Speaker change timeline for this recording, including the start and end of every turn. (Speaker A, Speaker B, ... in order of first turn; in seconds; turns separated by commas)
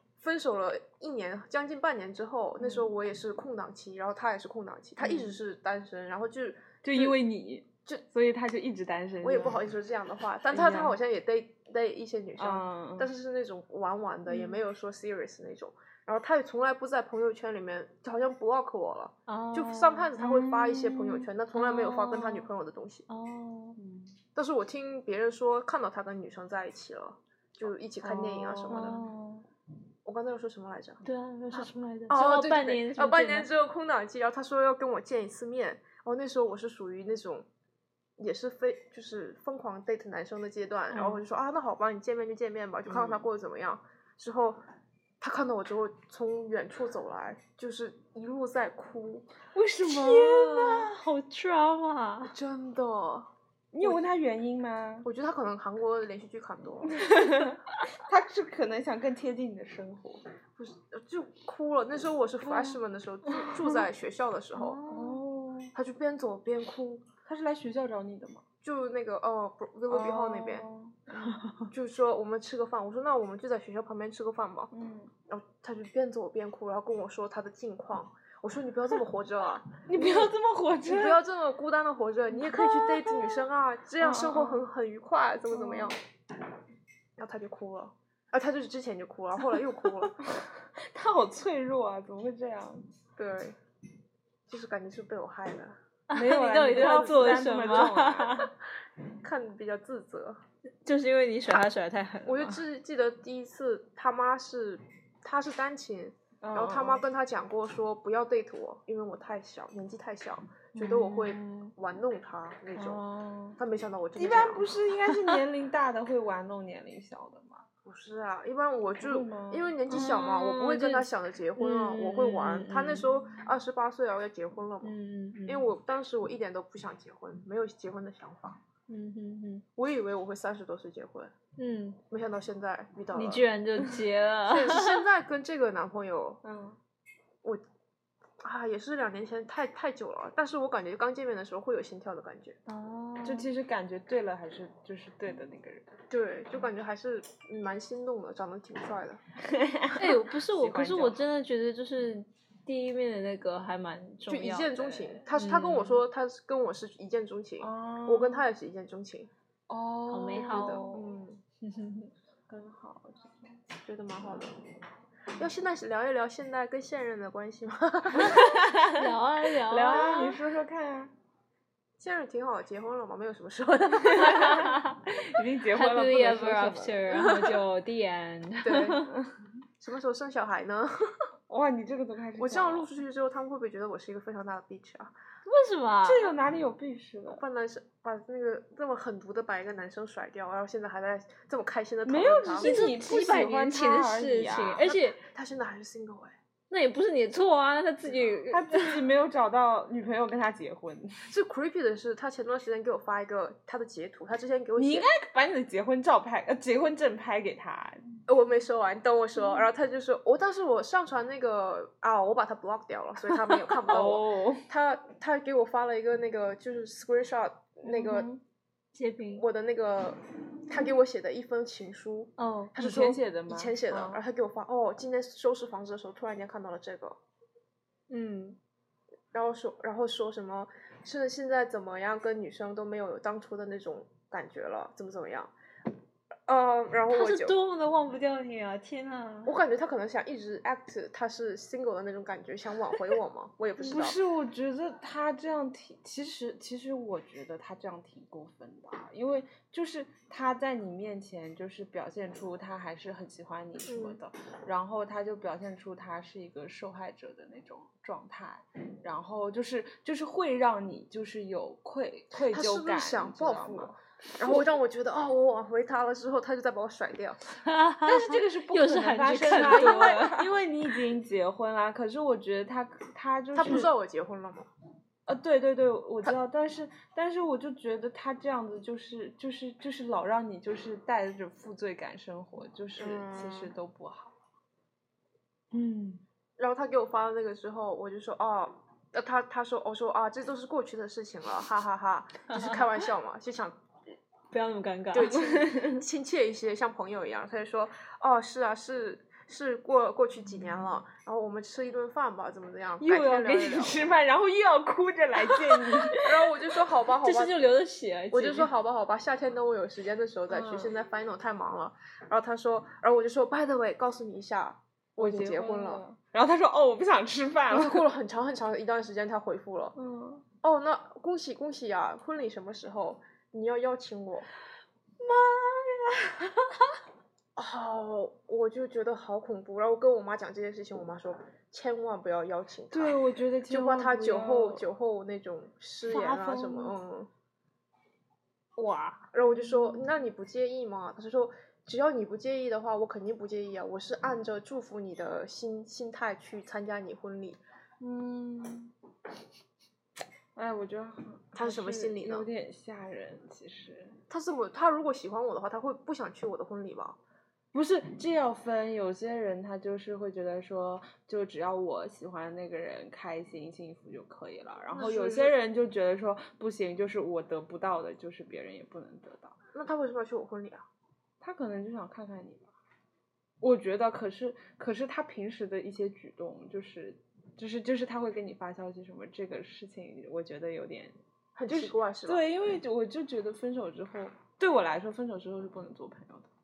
Speaker A: 0.2-7.2, Speaker B: 2.6-2.9, Speaker B: 5.0-5.3, Speaker B: 6.8-9.6, Speaker A: 9.2-23.1, Speaker B: 10.5-11.0, Speaker B: 12.4-13.1, Speaker C: 19.3-20.1, Speaker B: 20.2-21.3, Speaker C: 21.6-22.4, Speaker C: 23.1-23.8, Speaker B: 23.8-24.1, Speaker A: 24.4-29.0, Speaker B: 28.0-29.4, Speaker C: 28.7-29.4, Speaker A: 30.0-37.5, Speaker C: 31.0-33.5, Speaker A: 38.2-44.6, Speaker C: 40.9-41.2, Speaker B: 42.9-43.2, Speaker A: 45.2-49.3, Speaker B: 49.5-50.9, Speaker C: 49.8-52.3, Speaker A: 52.2-53.3, Speaker B: 53.7-55.1, Speaker A: 55.0-57.0, Speaker B: 56.9-60.2, Speaker A: 60.6-64.8, Speaker C: 64.5-65.2, Speaker B: 64.9-65.7, Speaker A: 65.8-67.0, Speaker B: 67.2-68.4, Speaker A: 68.6-70.7, Speaker B: 69.9-71.4, Speaker A: 71.7-74.7, Speaker B: 74.7-75.1, Speaker A: 75.3-80.3, Speaker B: 79.9-81.2, Speaker A: 80.9-86.0, Speaker B: 82.4-83.1, Speaker B: 84.0-84.6, Speaker B: 85.5-85.9, Speaker A: 87.2-90.2, Speaker B: 90.2-92.9, Speaker A: 93.2-93.6, Speaker A: 94.5-95.8, Speaker C: 96.1-98.5, Speaker B: 96.1-98.5, Speaker A: 96.8-97.1, Speaker A: 99.2-100.4, Speaker C: 100.8-102.6, Speaker A: 102.2-113.0, Speaker B: 106.4-107.0, Speaker C: 110.8-111.7, Speaker B: 112.7-113.6, Speaker A: 113.6-114.7, Speaker B: 114.2-117.7, Speaker C: 115.1-115.4, Speaker A: 117.9-124.9, Speaker B: 119.0-119.8, Speaker C: 119.9-123.1, Speaker C: 124.8-125.7, Speaker A: 125.5-128.6, Speaker C: 128.9-129.6, Speaker A: 129.8-131.3, Speaker C: 131.6-132.0, Speaker A: 132.1-133.4, Speaker C: 133.1-135.0, Speaker A: 134.5-136.4, Speaker B: 136.4-136.8, Speaker A: 138.4-142.6, Speaker C: 142.7-143.5, Speaker B: 143.2-146.0, Speaker A: 146.1-149.2, Speaker B: 149.4-151.2, Speaker C: 150.0-156.0, Speaker A: 154.3-159.3, Speaker B: 157.6-158.4, Speaker B: 159.7-160.9, Speaker C: 160.1-162.1, Speaker A: 160.5-161.4, Speaker B: 162.5-163.6, Speaker A: 163.8-164.5, Speaker A: 165.4-168.4, Speaker B: 168.2-169.1, Speaker C: 168.2-170.4, Speaker B: 169.6-171.1, Speaker A: 172.0-174.7, Speaker B: 174.1-177.4, Speaker C: 174.2-175.0, Speaker C: 175.7-179.1, Speaker A: 177.1-177.5, Speaker A: 178.6-179.1, Speaker A: 179.8-180.9, Speaker B: 181.5-182.9, Speaker A: 182.4-185.1, Speaker C: 185.5-186.3, Speaker B: 186.0-187.4, Speaker A: 187.3-192.8, Speaker B: 192.0-194.9, Speaker C: 192.6-195.2, Speaker A: 194.9-196.4, Speaker C: 196.7-199.0, Speaker B: 198.5-201.3, Speaker A: 201.3-205.1, Speaker B: 204.8-208.0, Speaker A: 208.3-218.3, Speaker B: 213.5-214.7, Speaker B: 217.8-218.4, Speaker C: 218.9-219.4, Speaker A: 219.4-227.2, Speaker C: 222.4-222.7, Speaker B: 222.8-224.2, Speaker C: 228.1-228.6, Speaker A: 229.3-235.5, Speaker A: 236.5-237.5, Speaker C: 237.1-239.6, Speaker A: 239.5-244.2, Speaker B: 243.8-264.7, Speaker A: 253.9-254.2, Speaker A: 262.4-267.4, Speaker C: 267.6-270.5, Speaker B: 268.0-273.9, Speaker A: 273.5-274.7, Speaker B: 275.3-284.3, Speaker A: 283.0-283.7, Speaker C: 285.7-286.2, Speaker A: 286.6-293.8, Speaker C: 292.5-293.0, Speaker C: 294.5-295.4, Speaker A: 295.1-303.9, Speaker B: 295.2-296.0, Speaker B: 303.0-306.5, Speaker C: 305.5-305.8, Speaker A: 306.2-307.6, Speaker C: 307.2-308.7, Speaker A: 308.3-316.0, Speaker B: 310.5-310.9, Speaker B: 315.2-318.1, Speaker A: 317.7-320.0, Speaker B: 319.9-320.4, Speaker A: 320.6-324.5, Speaker C: 325.2-327.0, Speaker A: 327.6-337.3, Speaker B: 332.9-334.9, Speaker C: 336.2-336.9, Speaker C: 338.8-339.2, Speaker A: 339.3-347.6, Speaker B: 339.7-340.0, Speaker B: 348.0-348.9, Speaker B: 350.5-354.2, Speaker A: 351.5-352.5, Speaker A: 354.3-357.2, Speaker B: 357.7-369.6, Speaker A: 364.9-365.5, Speaker A: 369.7-370.8, Speaker B: 371.4-372.7, Speaker B: 373.6-381.2, Speaker A: 381.5-382.5, Speaker B: 381.7-386.5